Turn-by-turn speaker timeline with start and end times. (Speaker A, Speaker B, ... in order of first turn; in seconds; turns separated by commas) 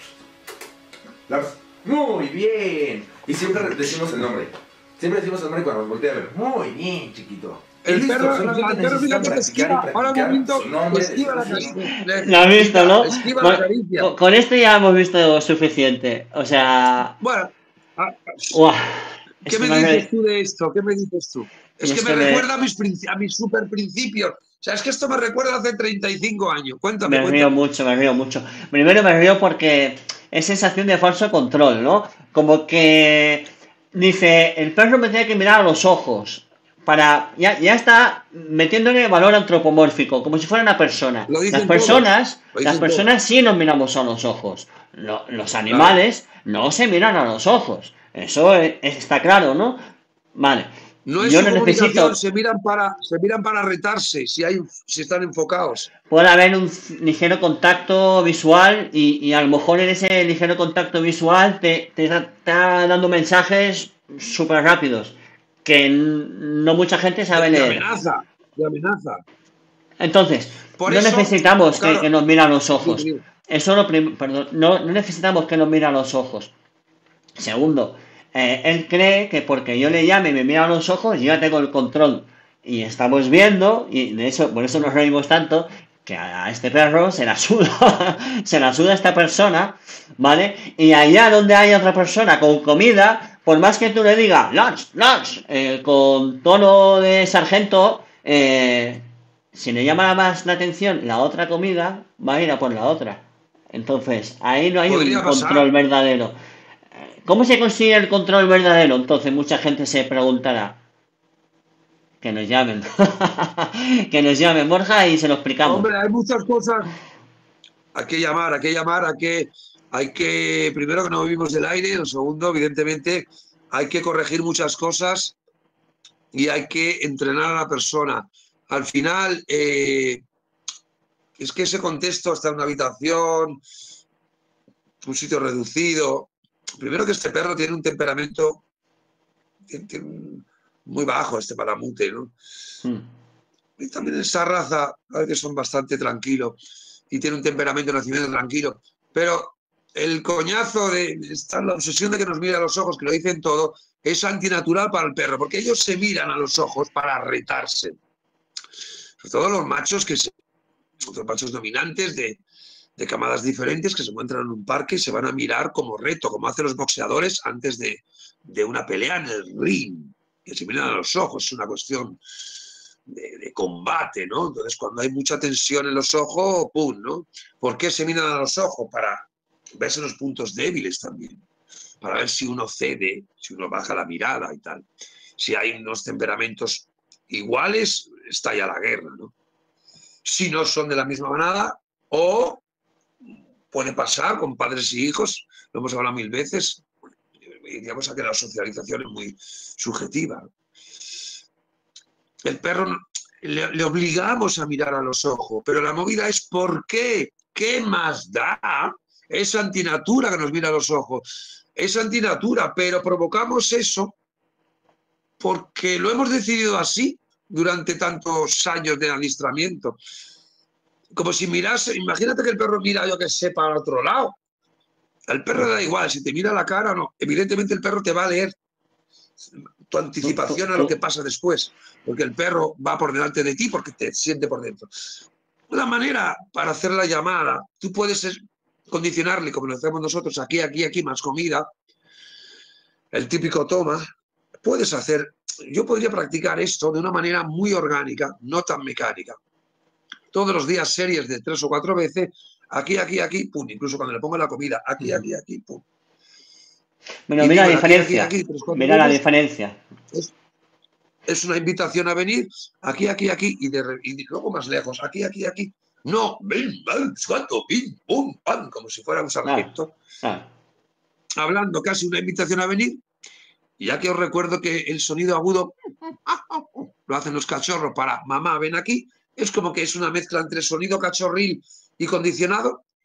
Speaker A: 1.3-11.8, Speaker B: 7.8-14.1, Speaker C: 11.8-17.2, Speaker B: 17.2-18.5, Speaker C: 18.5-20.1, Speaker B: 19.4-27.5, Speaker C: 21.8-22.4, Speaker C: 27.0-49.8, Speaker B: 41.3-43.1, Speaker B: 45.7-46.0, Speaker C: 50.4-52.1, Speaker B: 51.1-55.9, Speaker C: 56.1-67.8, Speaker B: 67.4-69.2, Speaker C: 70.0-76.5, Speaker B: 70.8-72.1, Speaker B: 72.8-73.2, Speaker C: 77.4-106.4, Speaker B: 104.9-105.7, Speaker C: 107.2-110.8, Speaker C: 112.2-115.9, Speaker B: 115.6-116.9, Speaker B: 117.9-125.4, Speaker B: 126.3-130.2, Speaker B: 131.4-133.6, Speaker B: 135.0-138.6, Speaker B: 139.7-142.3, Speaker B: 143.8-146.6, Speaker B: 147.1-157.9, Speaker B: 159.2-160.3, Speaker B: 161.1-162.4, Speaker B: 163.0-172.2, Speaker B: 173.1-179.3, Speaker B: 179.8-181.4, Speaker B: 182.0-184.9, Speaker B: 185.4-189.3, Speaker B: 190.2-192.6, Speaker B: 193.7-196.8, Speaker B: 197.6-200.5, Speaker B: 202.4-214.2, Speaker B: 215.4-220.0, Speaker B: 221.1-224.4, Speaker B: 225.3-228.5, Speaker B: 229.9-234.9, Speaker C: 230.2-230.9, Speaker B: 235.7-241.7, Speaker B: 243.1-244.1, Speaker B: 244.6-249.4, Speaker B: 250.3-255.8, Speaker C: 257.3-259.8, Speaker B: 257.4-259.2, Speaker B: 261.3-269.9, Speaker C: 269.4-269.7, Speaker C: 270.2-270.5, Speaker B: 271.4-273.0, Speaker B: 273.8-275.8, Speaker B: 276.3-282.8